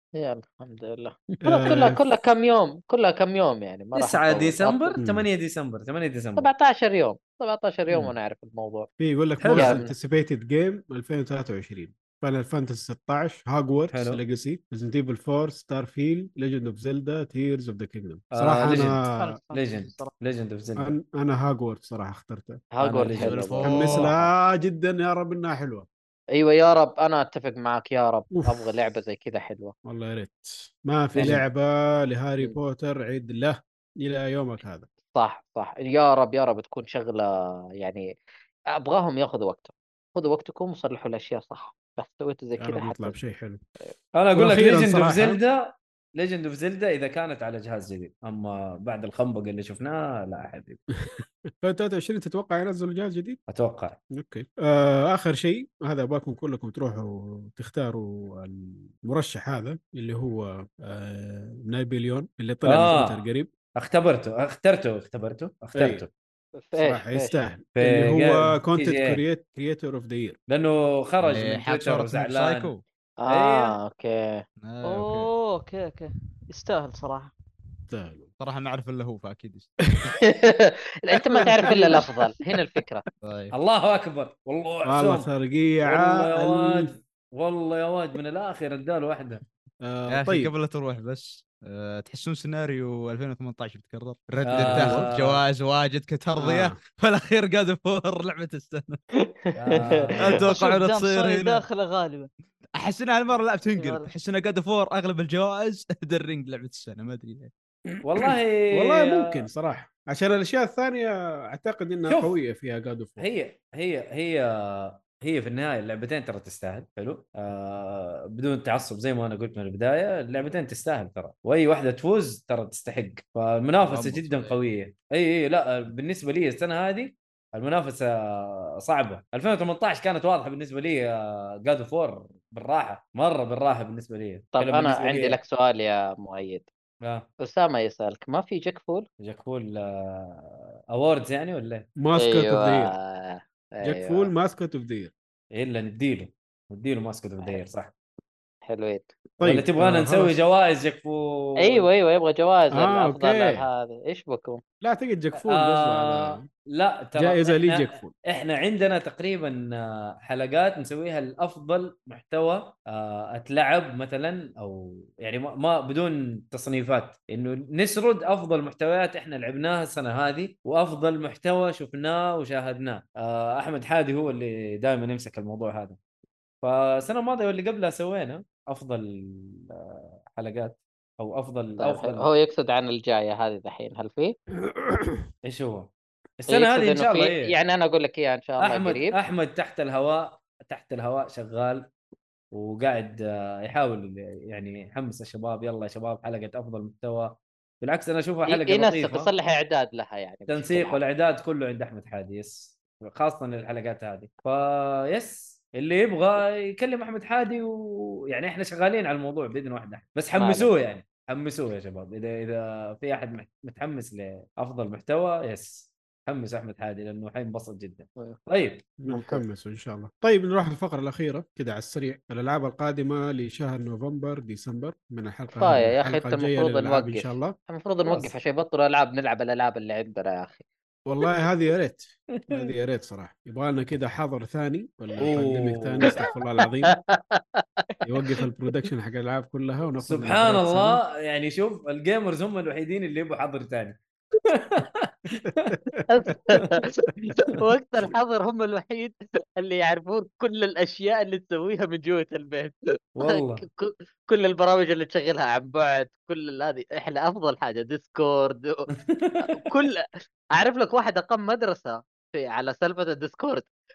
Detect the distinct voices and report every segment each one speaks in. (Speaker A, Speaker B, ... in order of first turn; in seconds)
Speaker A: 0.2-5.0, 6.4-8.9, 9.5-9.9, 22.7-23.8, 26.3-29.7, 35.1-37.3, 37.8-38.1, 38.8-43.1, 66.6-67.0, 73.2-74.4, 80.2-83.0, 99.2-100.0, 134.6-136.7, 137.4-139.1, 142.2-144.3, 148.6-149.2, 151.6-154.6, 181.8-184.3, 186.5-189.1, 198.5-201.0, 210.3-210.7, 219.1-219.4, 225.6-230.6, 236.9-238.0, 246.1-258.9, 259.4-263.7
Speaker B: 1.4-2.0, 5.0-5.3, 9.0-19.4, 20.8-22.6, 23.6-25.9, 28.3-28.6, 29.8-34.9, 42.6-43.6, 44.3-45.4, 51.1-53.4, 54.1-63.5, 65.7-66.0, 66.7-70.4, 77.9-78.3, 81.4-81.9, 84.8-86.9, 89.8-90.5, 94.6-95.1, 96.4-96.8, 108.7-113.3, 142.0-142.9, 143.8-145.1, 149.4-150.3, 152.7-153.7, 154.8-156.4, 157.1-158.1, 184.6-185.3, 219.0-227.6, 231.1-236.9, 238.0-241.0, 245.7-246.0
Speaker C: 3.9-6.5, 9.4-9.8, 13.9-14.2, 18.3-19.0, 19.5-20.9, 22.8-24.3, 31.1-31.4, 44.1-50.8, 53.5-54.0, 62.6-63.2, 63.8-66.1, 67.1-69.2, 70.5-72.7, 73.3-73.8, 83.5-85.3, 85.8-89.4, 94.4-95.4, 99.5-100.5, 108.0-109.3, 112.1-112.3, 113.2-135.4, 139.2-141.9, 145.5-147.9, 149.4-151.9, 155.4-176.0, 176.6-182.3, 185.4-185.9, 186.4-187.5, 188.6-191.8, 192.5-199.3, 200.5-218.8, 228.1-228.3, 232.4-232.7, 235.2-236.2, 240.0-245.8, 253.2-253.6, 259.0-259.6
Speaker D: 19.0-20.1, 74.8-77.3, 100.4-102.3, 103.8-104.1
Speaker E: 23.1-24.1, 71.2-72.8, 74.6-75.3, 78.4-79.7, 83.2-83.5, 90.1-99.0, 100.2-101.6, 102.8-107.5, 123.8-124.6